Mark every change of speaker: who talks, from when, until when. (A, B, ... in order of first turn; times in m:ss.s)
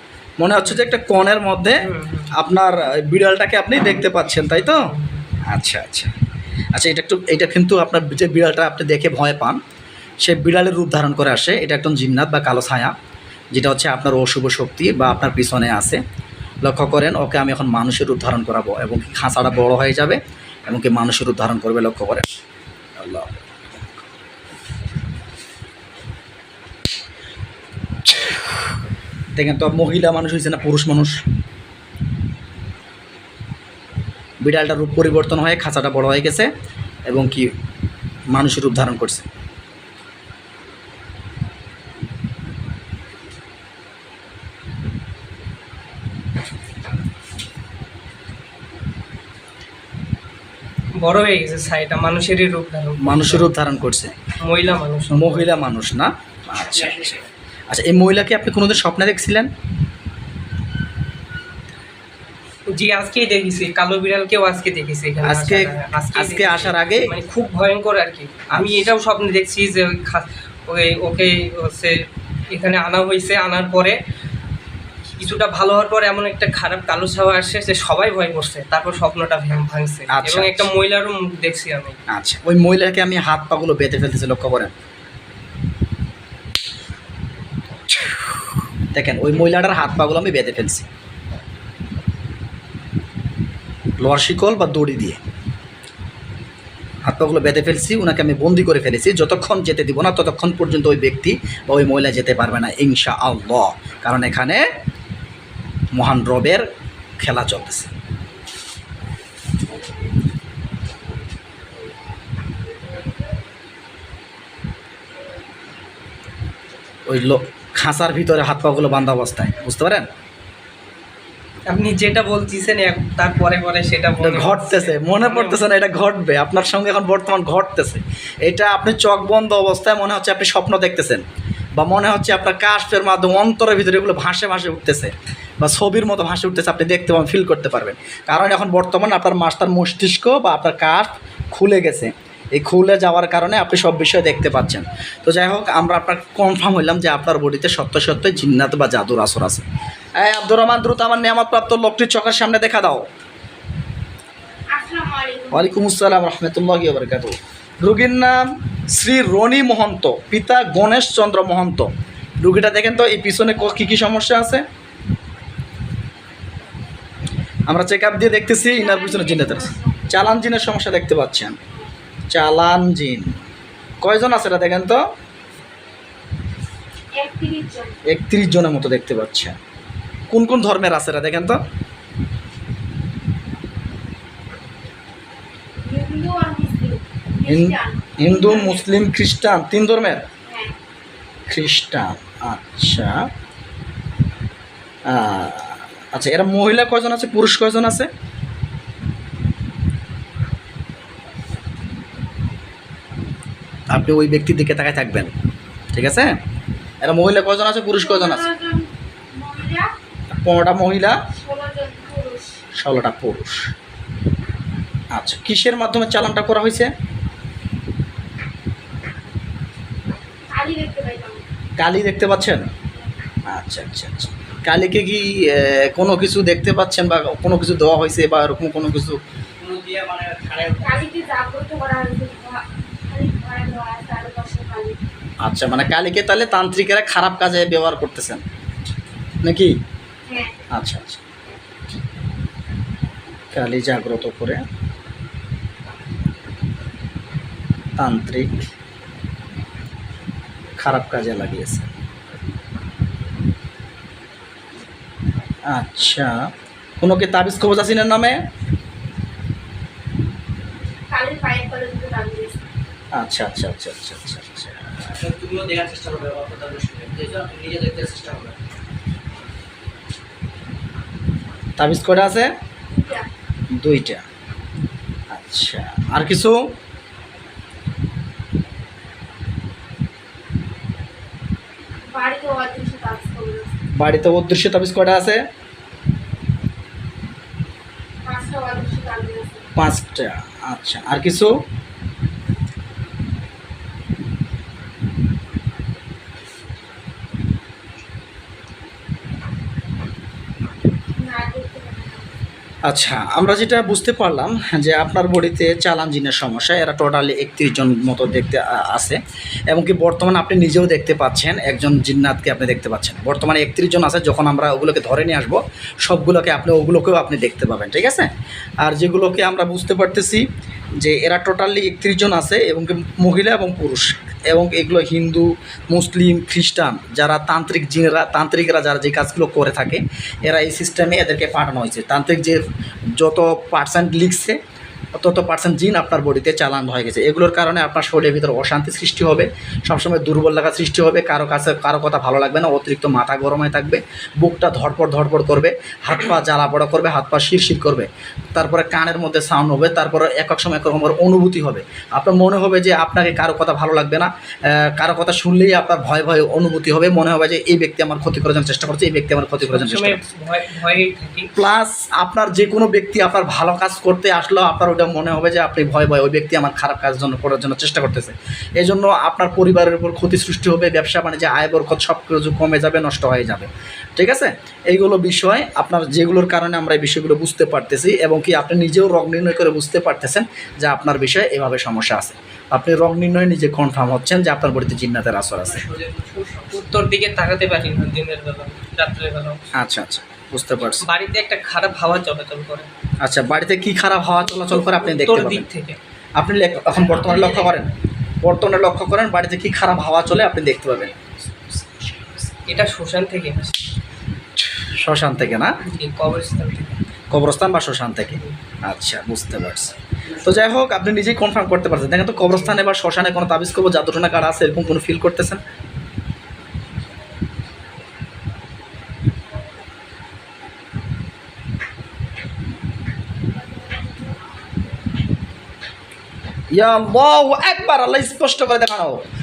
0:00.4-0:04.9 A
0:01.8-0:02.3 B
0:04.6-0:05.2 B
0:05.5-0:06.1 A
0:06.7-0:09.6 A
0:10.2-0:12.9 A
0:13.5-0:16.0 A
0:16.6-0:22.3 A
0:23.0-0:23.8 A
0:29.4-0:31.2 A
0:34.4-0:36.5 A
0:37.1-0:37.5 A
0:38.3-0:39.2 A
0:51.0-0:53.5 B
0:53.0-0:54.2 A
0:54.4-0:55.6 B
0:55.1-0:59.5 A
1:02.7-1:14.0 B
1:05.2-1:07.1 A
1:08.5-1:08.9 A
1:15.2-1:22.0 B
1:20.1-1:20.7 A
1:22.1-1:24.7 A
1:28.9-1:30.8 A
1:34.0-1:35.2 A
1:37.0-1:44.6 A
1:45.9-1:46.7 A
1:47.2-1:47.9 A
1:57.1-2:00.0 A
2:01.7-2:05.6 B
2:04.2-2:11.2 A
2:11.8-2:33.1 A
2:34.7-2:35.6 C
2:35.5-2:44.6 A
2:47.7-2:51.6 A
2:48.8-2:50.1 C
2:52.3-2:53.3 A
2:54.0-2:55.0 A
2:57.2-2:57.9 C
2:58.0-2:59.6 A
3:00.3-3:01.6 A
3:05.8-3:08.8 C
3:07.5-3:10.2 A
3:10.4-3:10.7 C
3:11.5-3:13.3 A
3:15.1-3:18.1 A
3:23.9-3:25.3 A
3:25.9-3:26.4 A
3:27.0-3:28.4 A
3:28.0-3:29.9 C
3:30.3-3:31.2 A
3:31.3-3:32.6 C
3:32.8-3:33.7 A
3:35.1-3:36.9 A
3:40.5-3:41.4 C
3:41.8-3:42.7 A
3:43.5-3:49.2 A
3:49.6-3:51.4 D
3:50.8-3:55.0 C
3:55.4-3:58.4 A
3:59.4-3:59.8 A
4:00.3-4:00.5 C
4:00.7-4:01.2 A
4:03.5-4:04.6 A
4:08.0-4:08.5 A
4:10.8-4:11.9 A
4:15.7-4:16.5 A
4:17.0-4:18.4 A
4:21.1-4:22.6 C
4:23.1-4:25.2 A
4:25.4-4:28.6 D
4:31.8-4:32.5 A
4:32.9-4:33.3 C
4:33.8-4:34.2 A
4:35.3-4:36.7 A
4:42.1-4:43.7 C
4:44.0-4:45.4 A
4:48.2-4:49.7 C
4:49.8-4:51.6 A
5:01.3-5:02.2 C
5:02.9-5:18.3 A
5:18.8-5:20.4 A
5:21.0-5:32.6 A
5:33.2-5:34.6 A
5:35.2-6:00.2 A
5:59.6-6:01.5 B
6:01.5-6:25.8 A
6:25.9-6:26.6 D
6:26.7-6:29.6 B
6:29.7-6:31.0 A
6:31.0-6:32.9 B
6:33.2-6:35.7 A
6:34.5-6:36.0 B
6:36.4-6:41.2 A
6:42.6-6:43.8 B
6:44.6-6:45.8 A
6:45.8-6:46.9 B
6:47.3-6:55.6 A
6:52.4-6:52.8 B
7:06.7-7:09.2 A